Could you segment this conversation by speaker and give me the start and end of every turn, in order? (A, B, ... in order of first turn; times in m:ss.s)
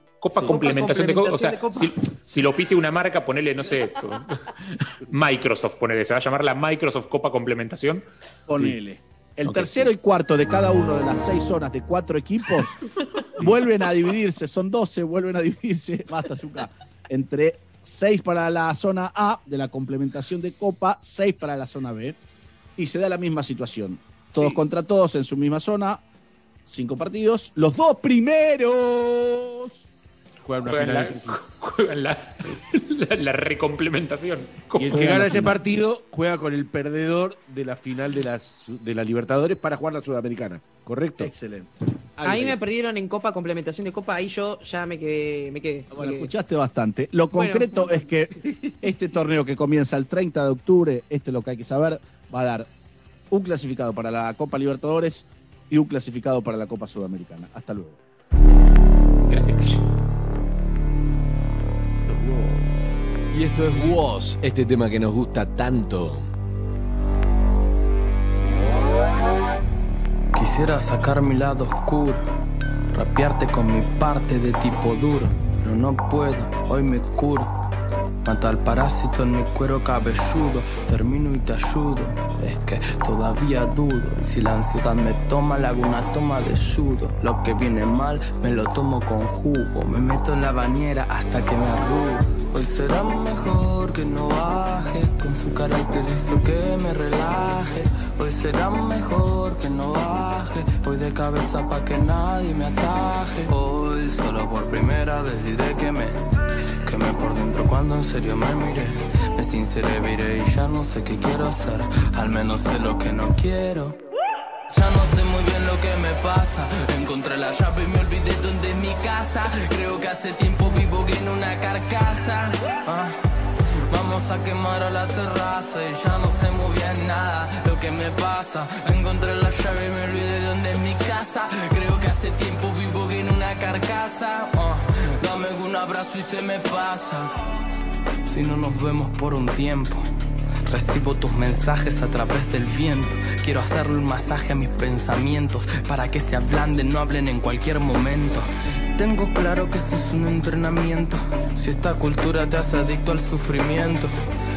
0:00.2-0:08.0 A
0:00.4-0:01.9 B
0:08.5-0:12.8 C
0:09.5-0:09.9 A
0:13.4-0:22.2 C
0:22.8-0:26.0 C
0:26.7-0:29.7 C
0:30.4-0:31.4 D
0:30.6-0:35.2 A
0:34.8-0:41.3 D
0:41.2-0:42.6 C
0:42.2-0:46.3 B
0:45.9-0:52.7 C
0:47.3-0:48.0 B
0:53.3-0:58.0 C
0:59.3-0:59.8 A
1:02.1-1:02.6 D
1:03.3-1:06.3 E
1:10.3-1:12.3 F
1:12.9-1:17.5 F
1:18.2-1:46.2 F
1:46.8-1:54.0 F
1:54.7-2:03.2 F
2:03.9-2:17.3 F
2:18.3-2:20.1 F
2:20.7-2:34.2 F